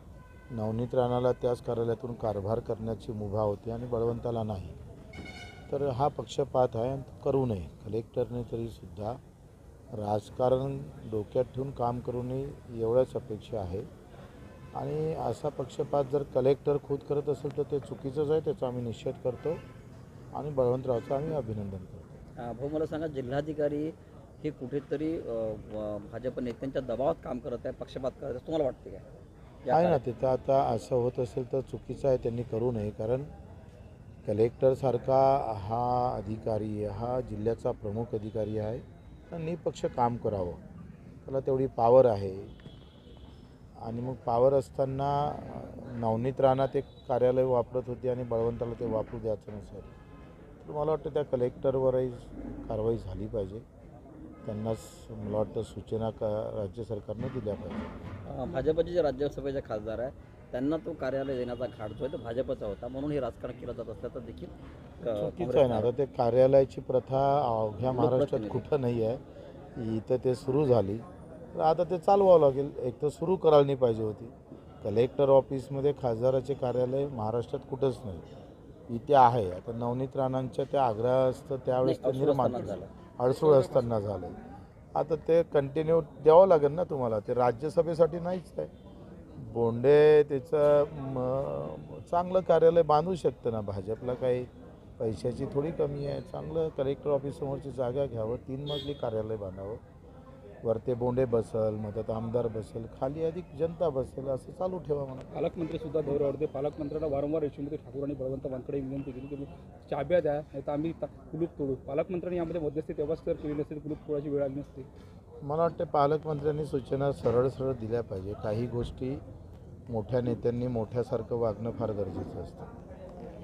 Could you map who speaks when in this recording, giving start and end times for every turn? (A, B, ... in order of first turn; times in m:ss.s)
0:00.5-0:04.8 A
0:05.7-0:09.2 A
0:09.9-0:13.9 A
0:14.7-0:19.6 A
0:20.3-0:22.2 A
0:22.4-0:29.0 B
0:29.6-0:30.0 B
0:29.7-0:33.3 A
0:34.2-0:40.6 A
0:41.2-0:42.5 A
0:43.8-0:49.9 A
0:50.6-0:53.6 A
0:54.4-0:57.9 A
0:58.2-1:05.9 B
1:05.0-1:09.2 A
1:07.8-1:08.7 B
1:09.7-1:18.2 A
1:18.9-1:24.4 A
1:21.8-1:22.9 B
1:24.9-1:28.7 A
1:29.4-1:39.8 A
1:40.6-1:45.3 A
1:45.3-1:54.9 C
1:55.4-1:59.2 A
1:59.9-2:02.7 A